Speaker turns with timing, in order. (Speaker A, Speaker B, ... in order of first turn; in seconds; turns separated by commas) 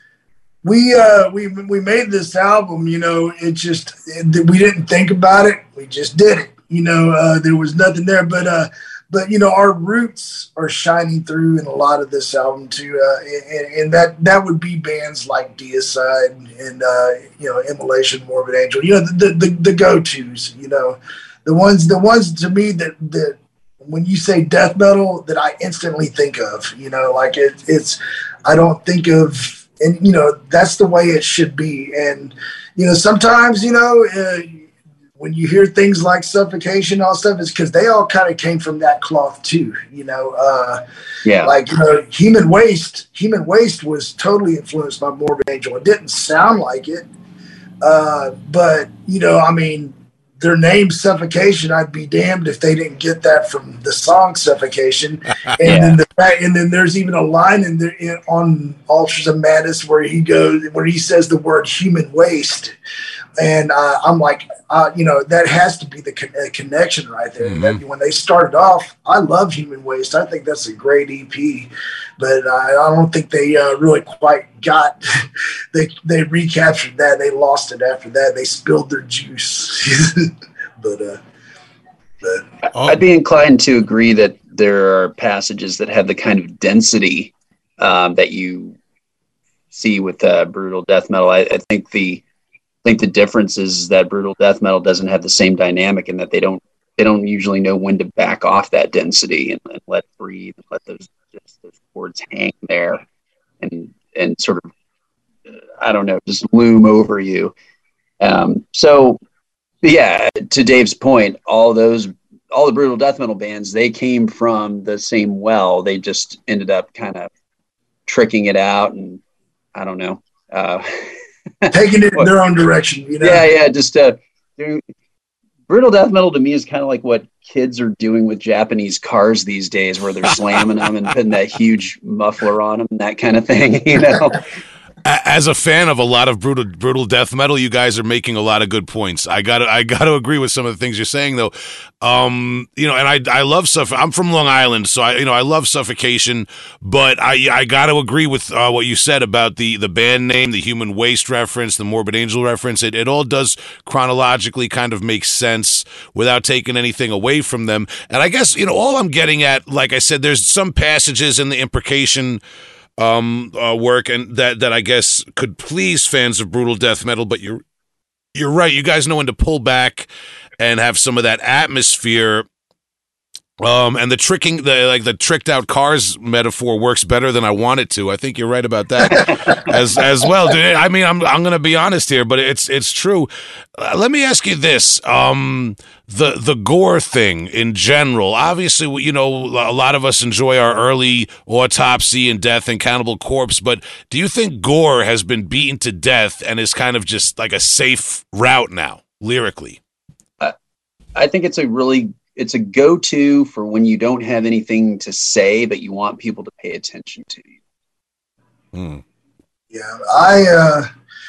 Speaker A: 0.6-34.6, Speaker A: 35.2-40.8, Speaker B: 41.2-41.5, Speaker A: 41.4-47.1, Speaker A: 47.8-62.8, Speaker B: 55.6-56.0, Speaker A: 63.4-81.2, Speaker C: 67.4-67.8, Speaker B: 82.6-88.8, Speaker B: 89.7-92.2, Speaker B: 92.8-103.0, Speaker B: 103.6-104.7, Speaker B: 105.8-107.5, Speaker B: 108.2-109.2, Speaker B: 109.8-117.3, Speaker B: 118.1-119.2, Speaker B: 119.8-122.3, Speaker A: 121.7-123.5, Speaker B: 123.2-124.8, Speaker B: 125.7-134.4, Speaker C: 135.0-162.4, Speaker C: 163.0-167.6, Speaker C: 168.3-172.5, Speaker C: 173.6-199.8, Speaker B: 201.2-207.5, Speaker C: 208.7-209.0, Speaker A: 209.7-210.9